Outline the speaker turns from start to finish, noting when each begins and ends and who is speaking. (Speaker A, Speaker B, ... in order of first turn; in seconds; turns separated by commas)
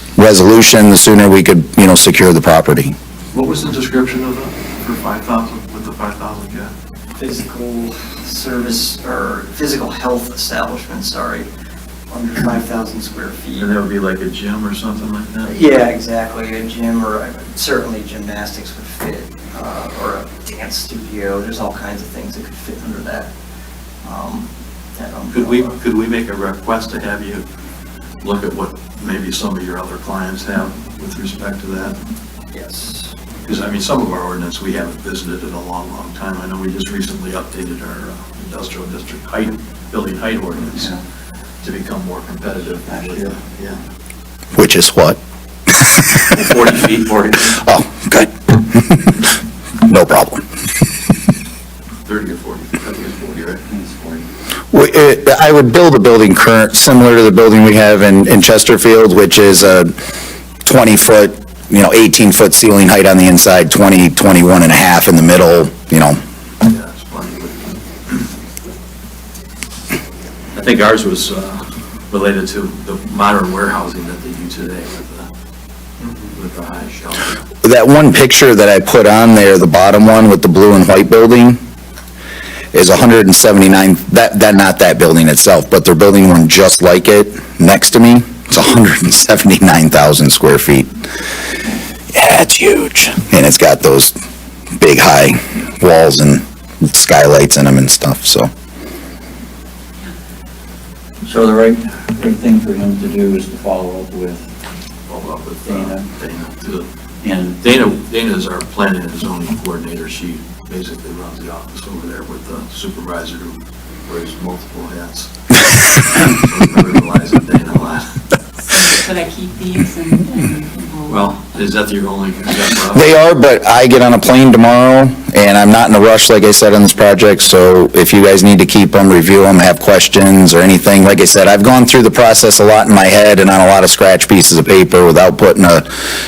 Speaker A: 0.2-3.0, Speaker B: 3.3-6.7, Speaker C: 7.2-11.5, Speaker C: 12.1-13.8, Speaker B: 13.5-15.7, Speaker C: 15.5-23.3, Speaker C: 24.0-25.7, Speaker B: 25.3-27.4, Speaker B: 28.2-32.0, Speaker C: 32.5-33.1, Speaker B: 33.4-41.0, Speaker B: 41.6-43.8, Speaker A: 44.5-45.2, Speaker B: 46.3-47.6, Speaker A: 47.5-49.1, Speaker A: 49.8-50.4, Speaker B: 52.0-53.6, Speaker D: 53.7-54.3, Speaker A: 54.7-59.9, Speaker A: 60.6-66.2, Speaker B: 66.6-68.2, Speaker B: 70.5-75.3, Speaker B: 76.2-77.4, Speaker A: 77.6-81.6, Speaker A: 82.7-90.9, Speaker A: 92.1-94.1, Speaker A: 94.8-98.5, Speaker D: 101.2-104.4, Speaker B: 105.1-106.9, Speaker D: 105.7-106.1, Speaker D: 107.2-107.6, Speaker B: 107.6-118.2, Speaker E: 118.7-121.6, Speaker B: 121.1-123.1, Speaker A: 122.9-135.9